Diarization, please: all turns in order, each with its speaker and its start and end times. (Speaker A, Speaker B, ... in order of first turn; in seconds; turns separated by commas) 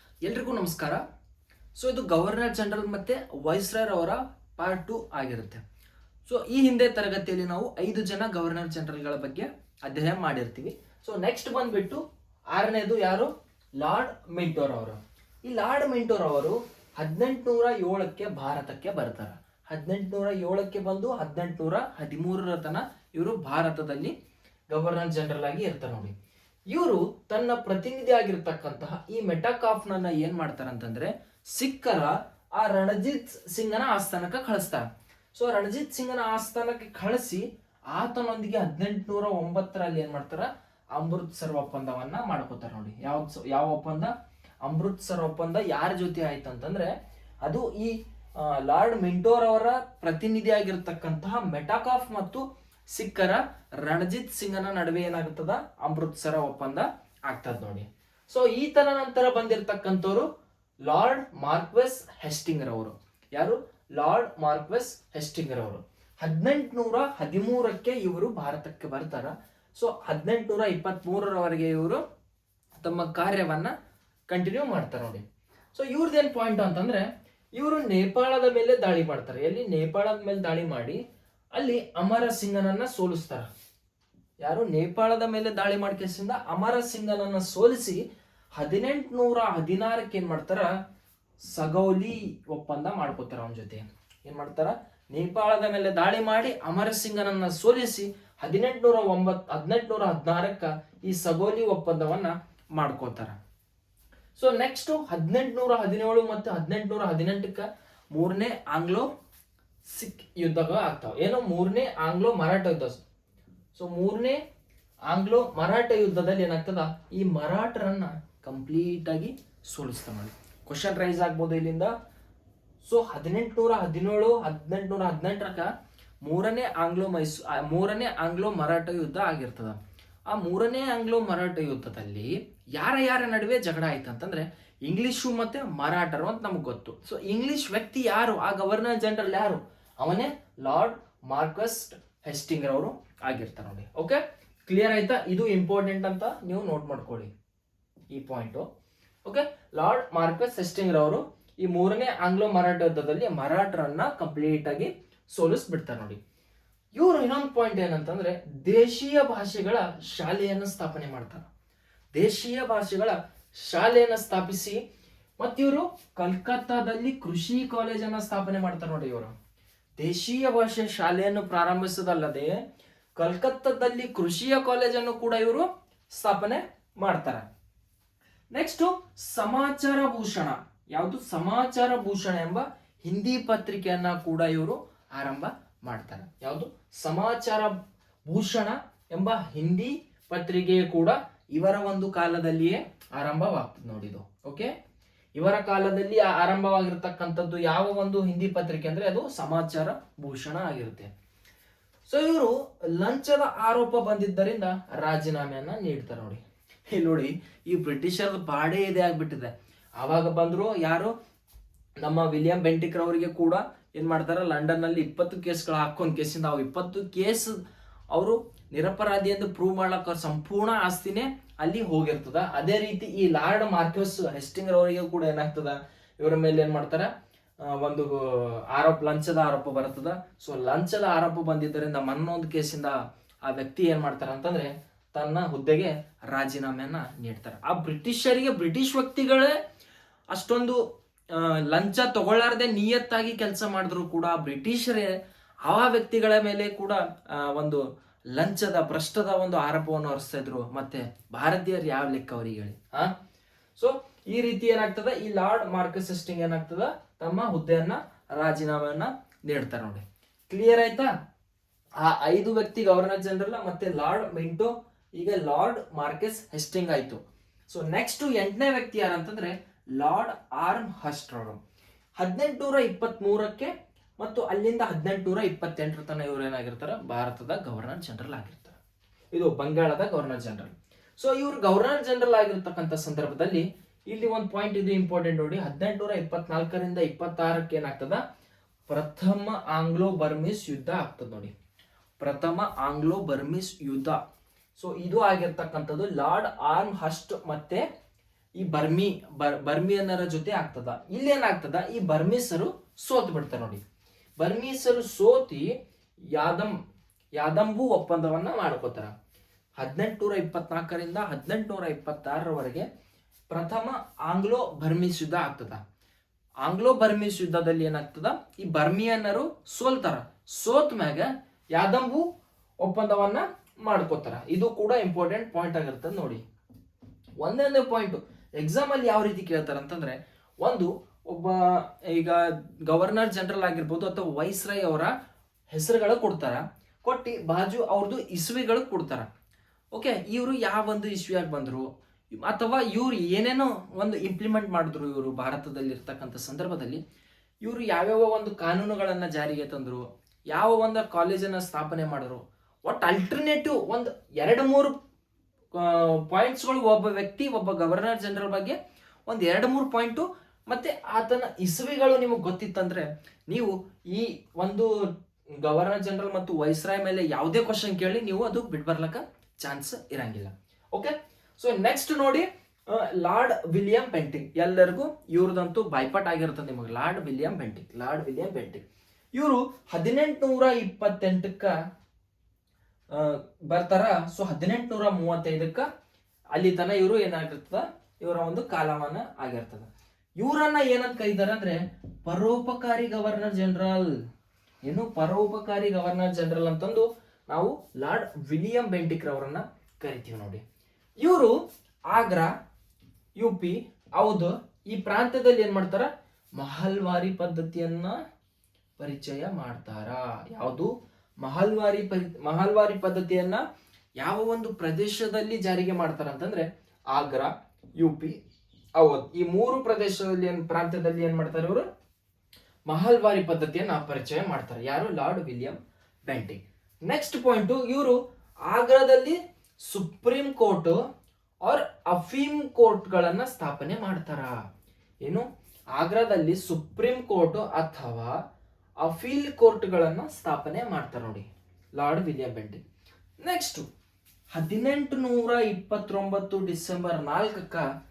Speaker A: 0.2-1.0, Speaker A: 1.7-5.6, Speaker A: 6.2-12.0, Speaker A: 12.5-24.1, Speaker A: 24.7-26.1, Speaker A: 26.7-44.1, Speaker A: 44.6-46.9, Speaker A: 47.4-60.3, Speaker A: 60.8-72.0, Speaker A: 72.8-73.7, Speaker A: 74.3-81.0, Speaker A: 81.5-83.5, Speaker A: 84.4-88.0, Speaker A: 88.5-90.7, Speaker A: 91.4-103.3, Speaker A: 104.3-109.1, Speaker A: 109.8-113.0, Speaker A: 113.7-114.4, Speaker A: 115.1-121.9, Speaker A: 122.8-125.7, Speaker A: 126.2-129.8, Speaker A: 130.3-147.3, Speaker A: 148.1-148.7, Speaker A: 149.2-156.2, Speaker A: 156.9-161.4, Speaker A: 162.1-164.8, Speaker A: 165.4-169.3, Speaker A: 170.0-172.6, Speaker A: 173.2-177.4, Speaker A: 178.5-187.7, Speaker A: 188.3-194.7, Speaker A: 195.3-201.1, Speaker A: 202.1-211.1, Speaker A: 212.0-217.6, Speaker A: 218.1-227.1, Speaker A: 227.6-239.6, Speaker A: 240.3-253.1, Speaker A: 253.8-261.1, Speaker A: 262.0-271.6, Speaker A: 272.2-278.8, Speaker A: 279.3-288.2, Speaker A: 288.9-291.5, Speaker A: 292.2-294.2, Speaker A: 294.8-297.8, Speaker A: 298.6-303.8, Speaker A: 304.4-305.8, Speaker A: 306.3-306.7, Speaker A: 307.3-309.1, Speaker A: 309.8-312.9, Speaker A: 313.5-315.8, Speaker A: 316.6-322.2, Speaker A: 322.8-326.4, Speaker A: 327.4-335.1, Speaker A: 335.7-339.3, Speaker A: 339.9-347.0, Speaker A: 347.6-354.9, Speaker A: 355.7-364.9, Speaker A: 365.6-381.8, Speaker A: 383.1-385.9, Speaker A: 386.5-389.9, Speaker A: 390.4-394.1, Speaker A: 394.8-400.6, Speaker A: 401.2-401.5, Speaker A: 402.1-402.5, Speaker A: 403.4-408.2, Speaker A: 409.0-410.9, Speaker A: 411.4-413.6, Speaker A: 414.2-418.4, Speaker A: 419.0-421.9, Speaker A: 422.9-431.0, Speaker A: 431.6-434.6, Speaker A: 435.2-438.4, Speaker A: 439.0-442.8, Speaker A: 443.4-443.9, Speaker A: 444.5-447.9